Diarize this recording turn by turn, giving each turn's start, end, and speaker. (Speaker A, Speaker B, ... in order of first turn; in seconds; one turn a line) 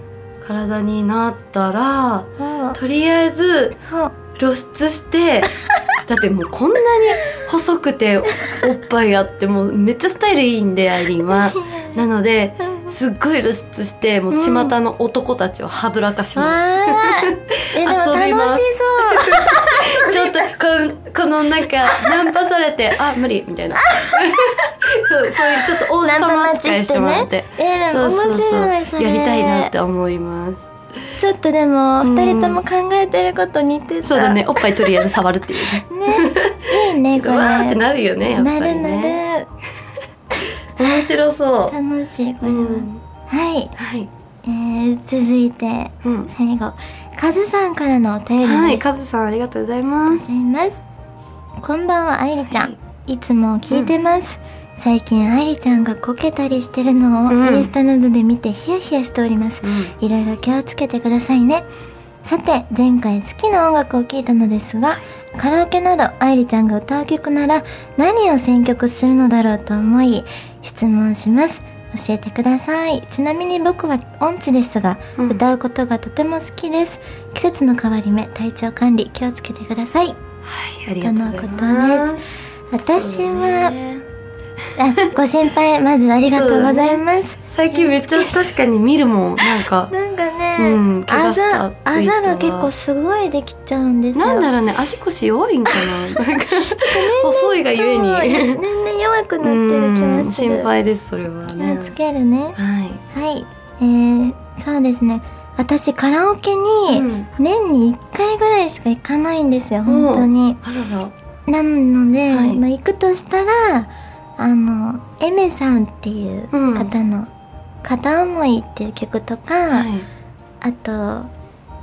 Speaker A: 0.4-3.8
Speaker B: 2.4-2.8
Speaker B: 3.8-4.2
Speaker A: 4.4-5.5
Speaker A: 6.0-30.7
Speaker B: 11.3-12.0
Speaker B: 12.6-12.9
Speaker B: 14.3-14.7
Speaker B: 16.4-20.5
Speaker B: 23.8-24.5
Speaker B: 25.6-29.7
Speaker B: 31.2-35.1
Speaker A: 32.0-32.6
Speaker A: 34.0-39.2
Speaker B: 35.8-39.5
Speaker A: 40.8-41.8
Speaker B: 41.7-43.7
Speaker A: 42.4-43.0
Speaker A: 43.8-44.1
Speaker B: 44.5-48.8
Speaker A: 46.0-46.3
Speaker A: 48.4-50.4
Speaker B: 50.1-50.8
Speaker B: 51.6-61.7
Speaker A: 57.3-57.7
Speaker A: 59.6-59.9
Speaker B: 62.2-80.2
Speaker A: 80.4-82.3
Speaker B: 81.0-82.1
Speaker B: 82.7-83.8
Speaker A: 82.9-84.1
Speaker B: 84.8-88.4
Speaker A: 86.3-89.9
Speaker B: 89.9-94.5
Speaker A: 90.6-92.7
Speaker A: 94.1-98.6
Speaker B: 95.7-100.7
Speaker A: 99.4-101.9
Speaker B: 101.5-102.6
Speaker A: 102.6-103.0
Speaker B: 103.1-110.6
Speaker A: 106.9-107.3
Speaker A: 109.9-111.1
Speaker B: 111.5-117.3
Speaker A: 112.3-112.6
Speaker A: 116.5-116.9
Speaker B: 117.8-119.9
Speaker A: 119.7-120.1
Speaker B: 120.6-121.3